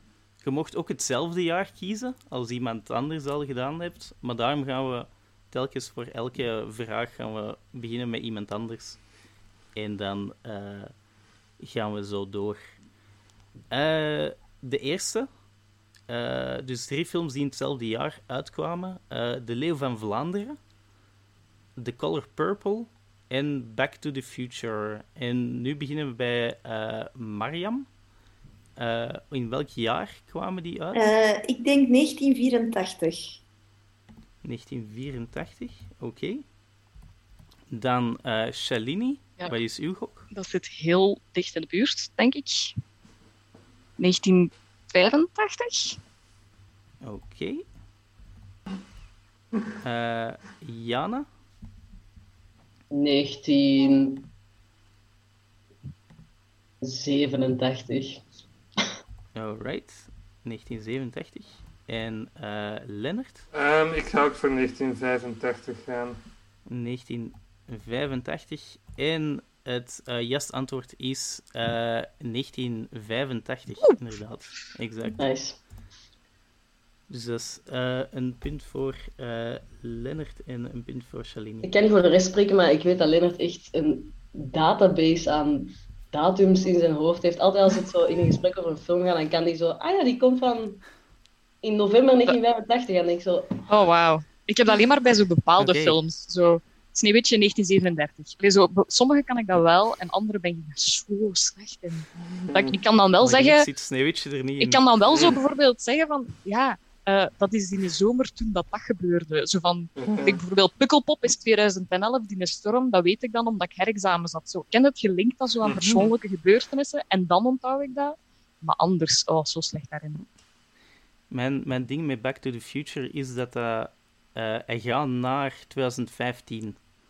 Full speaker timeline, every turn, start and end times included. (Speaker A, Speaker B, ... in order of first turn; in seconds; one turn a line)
Speaker A: 0.4-9.0
Speaker A: 9.8-10.9
Speaker A: 11.6-12.6
Speaker A: 13.7-15.3
Speaker A: 16.1-20.6
Speaker A: 21.8-27.9
Speaker A: 28.8-31.1
Speaker B: 30.9-33.4
Speaker A: 34.4-36.4
Speaker A: 37.7-40.3
Speaker C: 40.3-42.8
Speaker C: 44.0-46.0
Speaker A: 47.0-47.6
Speaker A: 49.8-51.3
Speaker D: 52.9-54.3
Speaker D: 56.8-58.2
Speaker A: 59.4-63.5
Speaker E: 63.5-66.2
Speaker A: 66.7-75.2
Speaker D: 75.2-75.6
Speaker A: 77.1-81.7
Speaker D: 81.6-90.9
Speaker D: 91.6-93.6
Speaker C: 93.7-103.7
Speaker A: 95.6-96.0
Speaker E: 102.3-102.8
Speaker A: 103.2-104.8
Speaker C: 104.6-120.2
Speaker E: 105.1-105.4
Speaker E: 110.0-110.4
Speaker E: 115.6-116.1
Speaker A: 121.3-126.8